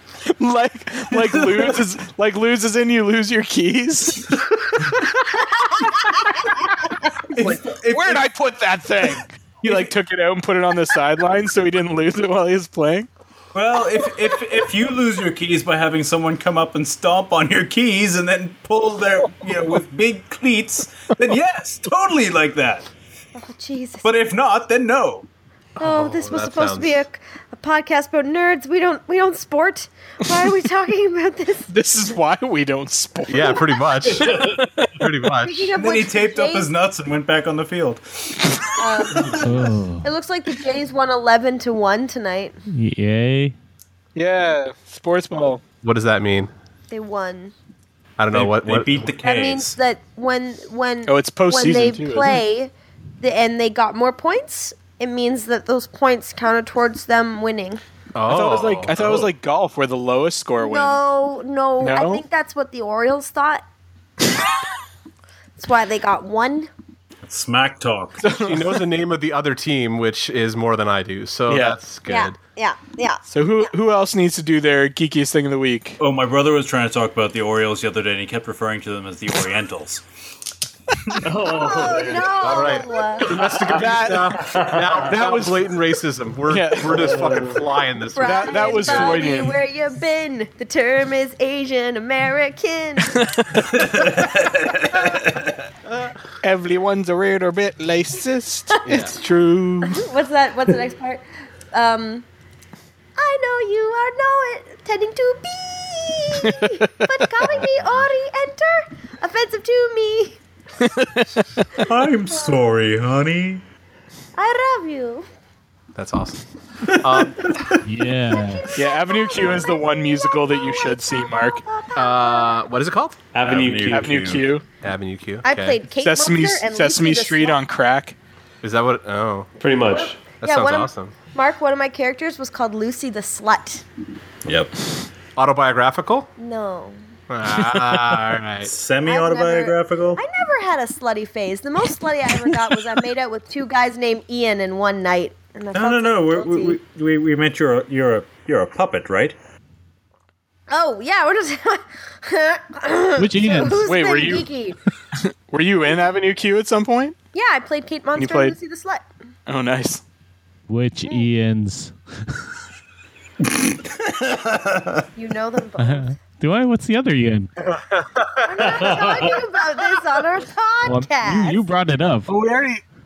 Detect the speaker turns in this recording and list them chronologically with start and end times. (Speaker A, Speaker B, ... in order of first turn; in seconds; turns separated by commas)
Speaker A: 0.2-4.4, Speaker B: 1.4-1.7, Speaker B: 7.3-8.3, Speaker A: 7.4-13.1, Speaker B: 13.5-22.9, Speaker C: 23.4-24.1, Speaker B: 24.0-25.3, Speaker D: 25.8-26.9, Speaker C: 25.8-31.7, Speaker A: 31.7-34.9, Speaker D: 33.3-35.7, Speaker B: 34.1-34.7, Speaker C: 35.4-36.7, Speaker B: 35.8-39.5, Speaker C: 38.8-39.5, Speaker E: 39.4-40.1, Speaker C: 40.0-42.6, Speaker E: 42.7-43.5, Speaker A: 44.2-45.6, Speaker D: 45.8-46.5, Speaker C: 46.9-47.5, Speaker D: 48.2-49.1, Speaker B: 48.3-49.8, Speaker C: 49.2-57.8, Speaker A: 51.1-52.4, Speaker D: 58.1-59.3, Speaker A: 58.3-61.0, Speaker C: 60.6-63.6, Speaker A: 61.8-62.2, Speaker C: 65.6-66.7, Speaker B: 67.2-68.2, Speaker A: 68.2-68.8, Speaker D: 68.4-72.4, Speaker A: 71.5-71.8, Speaker C: 72.1-73.2, Speaker A: 73.3-76.0, Speaker B: 76.0-80.0, Speaker F: 81.2-82.7, Speaker C: 81.4-83.3, Speaker D: 82.4-89.3, Speaker A: 83.3-85.7, Speaker F: 84.5-85.0, Speaker A: 86.5-87.3, Speaker C: 88.2-93.2, Speaker A: 88.2-89.6, Speaker A: 93.0-93.7, Speaker B: 93.6-95.5, Speaker A: 96.4-100.0, Speaker D: 98.9-99.2, Speaker C: 99.8-102.2, Speaker C: 103.2-110.4, Speaker D: 107.6-107.8, Speaker A: 110.8-111.7, Speaker C: 111.8-112.5, Speaker B: 111.8-113.6, Speaker C: 114.4-115.3, Speaker D: 116.0-117.6, Speaker B: 116.9-117.8, Speaker E: 117.8-118.8, Speaker C: 118.3-122.6, Speaker A: 118.8-121.6, Speaker D: 122.0-123.2, Speaker F: 123.3-124.4, Speaker B: 123.4-124.5, Speaker A: 123.9-124.6, Speaker D: 124.8-125.8, Speaker C: 125.4-127.6, Speaker A: 126.0-128.2, Speaker D: 128.6-129.5, Speaker F: 129.6-130.2, Speaker C: 130.3-133.8, Speaker D: 130.3-131.1, Speaker B: 134.4-134.7, Speaker D: 135.4-136.3, Speaker C: 136.4-137.0, Speaker D: 137.3-138.7, Speaker B: 138.6-140.2, Speaker C: 139.1-146.8, Speaker B: 145.7-149.4, Speaker C: 150.7-154.8, Speaker E: 153.2-153.8, Speaker A: 153.8-154.5, Speaker A: 155.2-157.2, Speaker C: 157.3-159.1, Speaker A: 158.2-158.6, Speaker A: 159.5-160.0, Speaker E: 160.7-162.4, Speaker B: 163.5-165.0, Speaker C: 165.2-166.2, Speaker E: 165.8-167.5, Speaker D: 167.6-168.9, Speaker C: 168.4-171.6, Speaker E: 170.8-172.3, Speaker A: 172.3-172.8